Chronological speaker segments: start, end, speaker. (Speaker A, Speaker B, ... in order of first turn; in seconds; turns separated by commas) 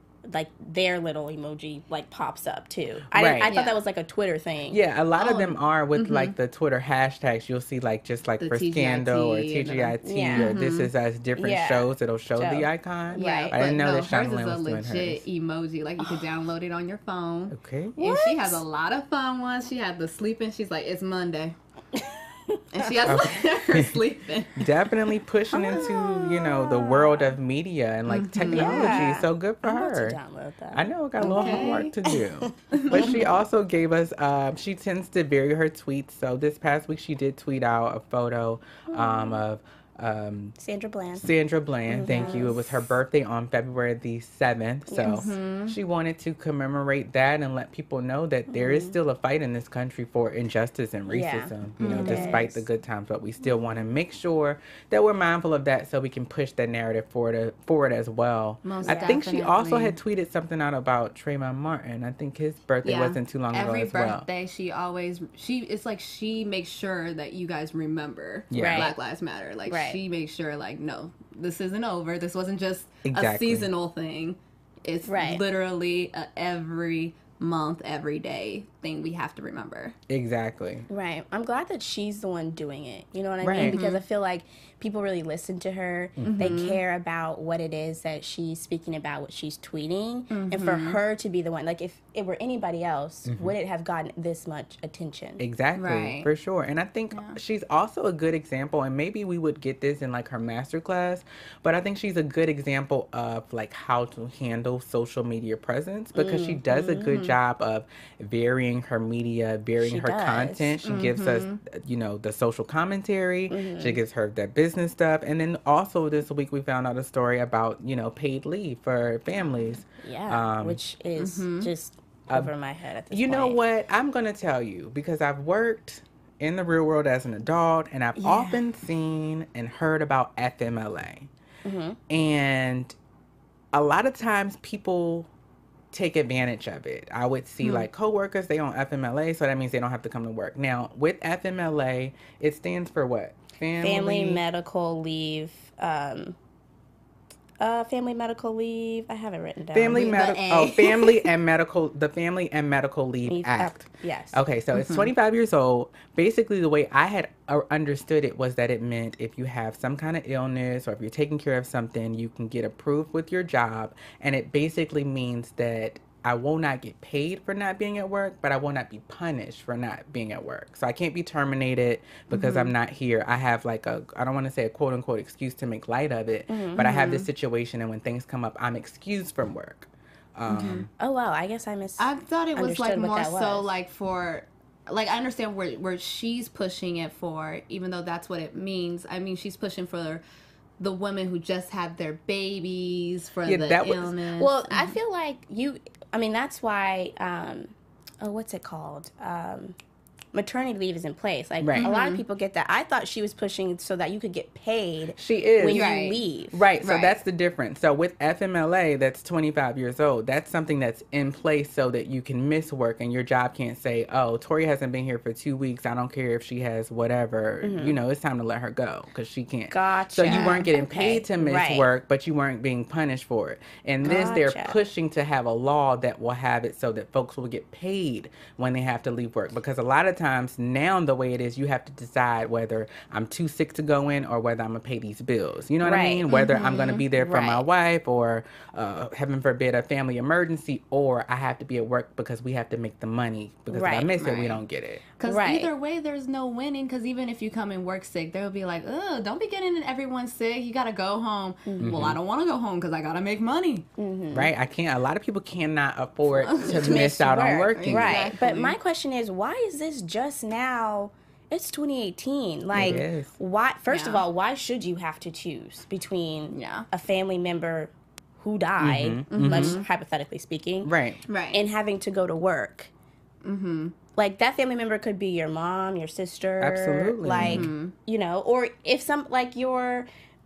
Speaker A: 0.3-4.8, Speaker B: 3.1-3.6, Speaker C: 3.5-3.8, Speaker B: 4.7-15.2, Speaker C: 5.2-6.3, Speaker C: 8.4-10.9, Speaker A: 10.0-10.5, Speaker A: 11.4-13.6, Speaker C: 13.1-21.6, Speaker B: 17.5-18.0, Speaker A: 18.0-18.6, Speaker A: 22.0-22.9, Speaker C: 22.7-24.6, Speaker B: 23.1-24.0, Speaker B: 24.6-30.2, Speaker A: 25.5-27.4, Speaker C: 28.1-29.1, Speaker A: 28.5-33.2, Speaker B: 30.7-40.6, Speaker C: 31.2-31.9, Speaker C: 32.8-33.3, Speaker A: 38.9-39.4, Speaker A: 40.6-41.3, Speaker B: 41.1-64.3, Speaker A: 41.9-42.6, Speaker C: 42.1-42.5, Speaker A: 44.9-45.3, Speaker C: 45.0-45.8, Speaker A: 48.5-49.0, Speaker A: 51.1-52.6, Speaker C: 51.8-52.5, Speaker C: 58.6-60.0, Speaker A: 58.8-59.2, Speaker C: 62.8-80.0, Speaker B: 68.5-68.9, Speaker A: 68.5-68.9, Speaker A: 69.7-70.0, Speaker B: 73.0-73.7, Speaker A: 75.1-75.4, Speaker B: 80.1-80.9, Speaker A: 80.9-95.4, Speaker B: 83.4-83.8, Speaker C: 83.6-84.0, Speaker B: 86.2-86.6, Speaker C: 86.2-86.8, Speaker C: 90.3-91.0, Speaker B: 93.3-93.5, Speaker B: 95.4-120.8, Speaker C: 95.8-96.3, Speaker A: 106.2-107.1, Speaker A: 109.8-110.8, Speaker C: 110.8-111.6, Speaker A: 113.5-114.0, Speaker A: 120.0-123.6, Speaker C: 121.2-121.7, Speaker B: 123.1-131.3, Speaker A: 128.2-128.6, Speaker A: 131.7-132.0, Speaker B: 132.1-133.0, Speaker B: 133.7-135.3, Speaker B: 135.9-144.4, Speaker C: 137.6-137.9, Speaker A: 143.8-146.4, Speaker A: 147.6-150.1, Speaker B: 149.7-180.9, Speaker C: 149.9-151.3, Speaker A: 153.3-154.4, Speaker C: 154.7-155.1, Speaker C: 172.3-172.7, Speaker A: 176.5-176.9, Speaker C: 176.8-177.3, Speaker C: 180.5-180.9, Speaker A: 181.0-183.7, Speaker C: 182.0-190.2, Speaker C: 190.8-194.9, Speaker B: 193.5-194.1, Speaker A: 194.4-199.8, Speaker A: 200.3-206.6, Speaker B: 201.6-201.9, Speaker C: 201.8-202.2, Speaker B: 205.2-205.8, Speaker C: 205.7-206.2, Speaker B: 206.5-245.0, Speaker C: 206.8-207.2, Speaker A: 217.6-218.0, Speaker A: 219.7-221.9, Speaker A: 224.0-224.8, Speaker A: 235.8-236.2, Speaker C: 236.3-237.1, Speaker A: 237.2-237.7, Speaker A: 243.7-244.1, Speaker C: 244.2-244.6, Speaker C: 245.2-253.9, Speaker A: 245.2-245.7, Speaker A: 251.7-252.1, Speaker B: 251.8-252.2, Speaker A: 254.0-254.5, Speaker B: 254.3-258.3, Speaker A: 256.5-270.9, Speaker C: 256.5-257.1, Speaker C: 257.8-258.8, Speaker B: 262.7-263.3, Speaker C: 263.9-264.2, Speaker C: 266.5-266.9, Speaker B: 268.8-269.8, Speaker C: 269.3-269.9, Speaker B: 270.8-271.2, Speaker C: 271.3-271.6, Speaker A: 271.5-272.9, Speaker C: 273.4-273.9, Speaker A: 274.2-280.1, Speaker B: 276.6-277.7, Speaker C: 277.4-277.9